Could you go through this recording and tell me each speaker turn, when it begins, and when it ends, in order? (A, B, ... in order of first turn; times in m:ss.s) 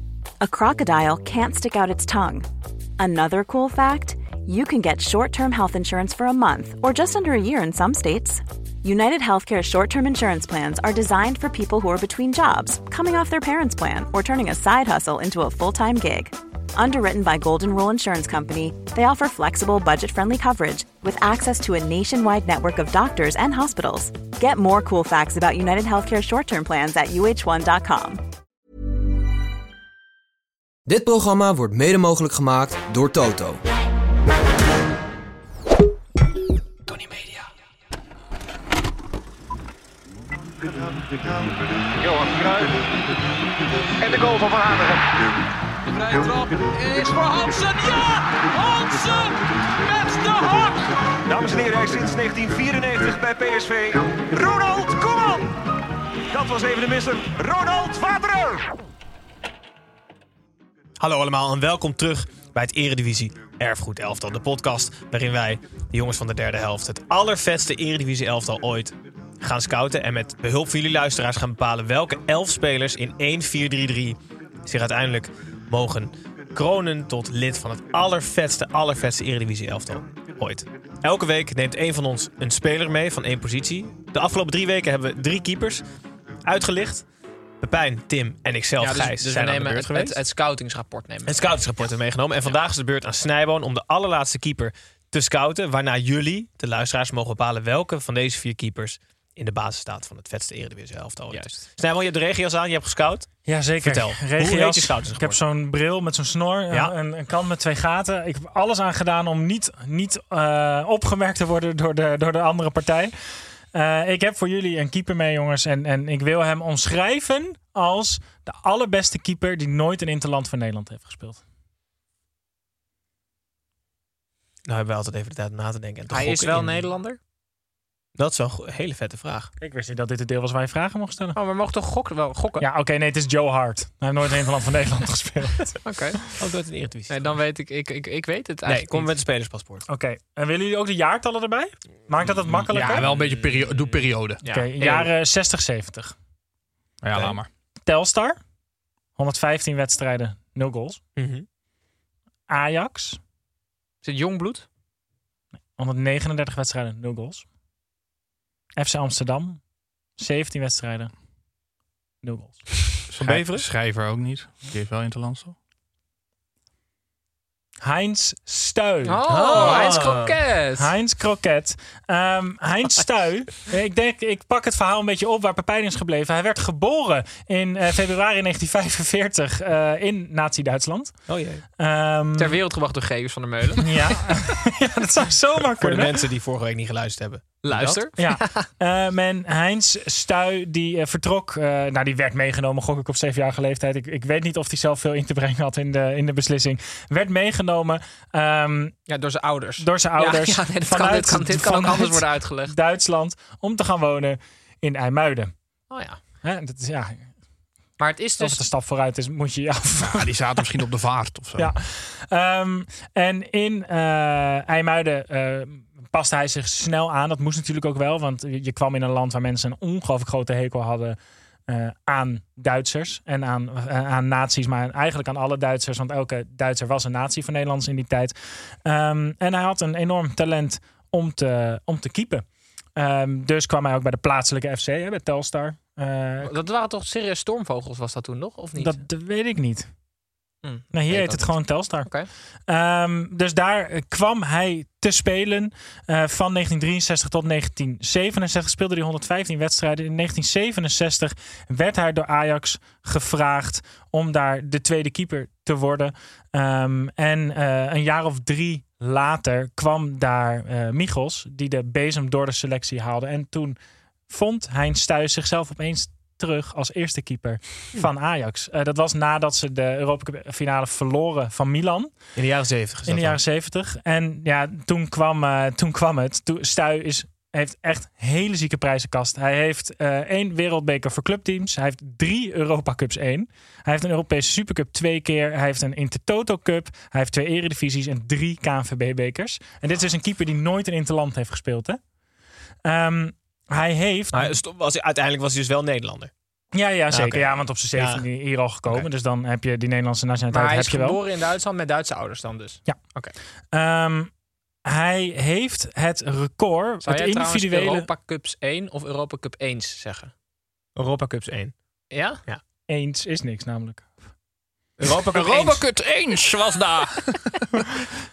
0:00.4-0:02.5 A
0:03.0-0:28.2 A
0:30.9-0:33.6 B
0:42.0-0:42.6 C
0:44.0-0:44.5 C
0:51.3-0:53.8 D
0:51.6-0:53.5 C
0:54.4-0:55.3 D
0:56.4-0:56.7 D
0:57.7-0:58.0 D
1:01.0-1:25.8 D
1:26.4-1:27.0 D
1:27.6-1:30.2 D
1:28.8-1:31.5 E
1:31.3-1:43.3 D
1:41.3-1:41.6 E
1:43.4-1:53.1 F
1:43.8-1:45.4 D
1:53.7-2:01.4 F
2:04.7-2:06.8 D
2:06.1-2:07.2 E
2:08.2-2:09.5 D
2:09.6-2:11.4 F
2:11.3-2:12.7 E
2:12.6-2:15.8 F
2:15.8-2:16.3 E
2:16.4-2:17.2 D
2:17.1-2:19.1 E
2:18.7-2:19.8 D
2:19.9-2:23.1 F
2:22.4-2:24.4 G
2:24.4-2:25.1 E
2:24.4-2:26.1 F
2:27.0-2:27.5 G
2:27.8-2:28.4 F
2:29.2-2:31.0 F
2:31.2-2:31.4 D
2:32.5-2:33.2 F
2:34.0-2:34.6 E
2:35.8-2:37.4 F
2:38.8-2:39.6 F
2:40.2-2:41.1 F
2:42.2-2:42.9 F
2:43.1-2:45.5 G
2:43.2-2:43.7 D
2:47.8-2:50.2 F
2:49.0-2:50.9 E
2:49.3-2:50.4 D
2:50.8-3:01.2 F
3:01.3-3:01.6 D
3:01.8-3:02.6 F
3:02.4-3:04.1 E
3:03.8-3:06.3 F
3:05.8-3:08.0 D
3:07.6-3:08.7 E
3:08.2-3:19.0 F
3:19.1-3:22.7 E
3:19.8-3:25.5 F
3:25.9-3:26.2 E
3:26.4-3:27.2 F
3:28.0-3:28.7 E
3:28.4-3:30.4 F
3:30.0-3:31.7 G
3:31.6-3:52.4 F
3:53.0-3:56.6 F
3:56.4-3:59.0 E
3:58.8-3:59.9 F
4:00.6-4:02.3 E
4:00.9-4:02.1 F
4:02.7-4:23.8 F
4:24.3-4:32.1 F
4:32.4-4:33.4 D
4:33.0-4:52.0 F
4:52.8-4:54.6 F
4:54.3-4:56.3 D
4:56.7-5:01.2 F
4:57.1-4:58.2 D
5:00.5-5:03.3 E
5:03.7-5:04.3 F
5:04.8-5:08.1 F
5:07.0-5:10.3 E
5:11.0-5:11.7 D
5:12.1-5:12.4 E
5:12.9-5:14.1 F
5:15.0-5:15.8 D
5:15.3-5:17.7 G